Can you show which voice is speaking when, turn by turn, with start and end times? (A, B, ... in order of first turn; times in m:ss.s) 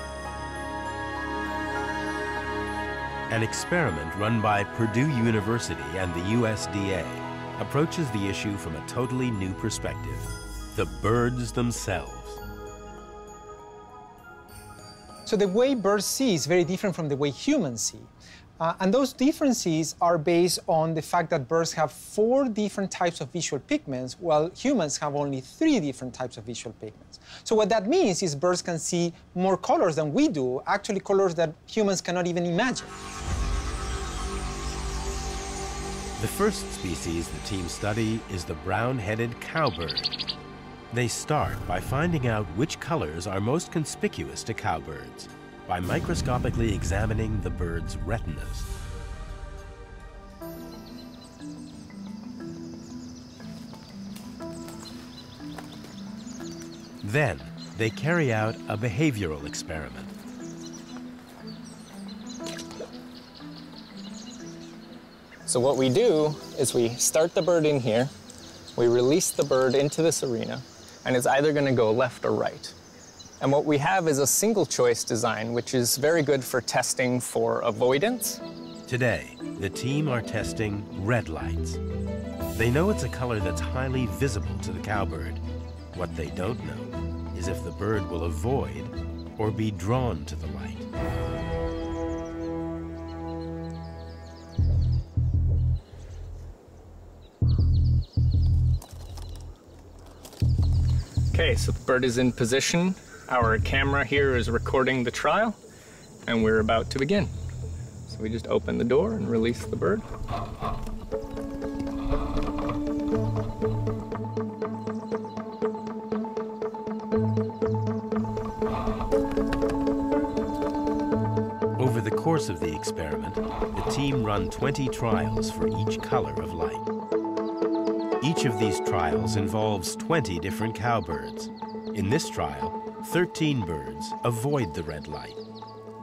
0:03.3-0:12.4 A
0:15.2-0:32.9 B
0:36.2-0:40.1 A
0:40.9-0:48.7 A
0:57.0-1:00.1 A
1:05.5-1:08.1 C
1:08.8-1:12.7 C
1:13.4-1:18.4 C
1:18.9-1:21.8 A
1:22.5-1:25.4 A
1:25.9-1:30.9 A
1:41.3-1:45.6 C
1:46.3-1:47.3 C
1:48.1-1:50.0 C
2:01.8-2:06.8 A
2:08.2-2:15.4 A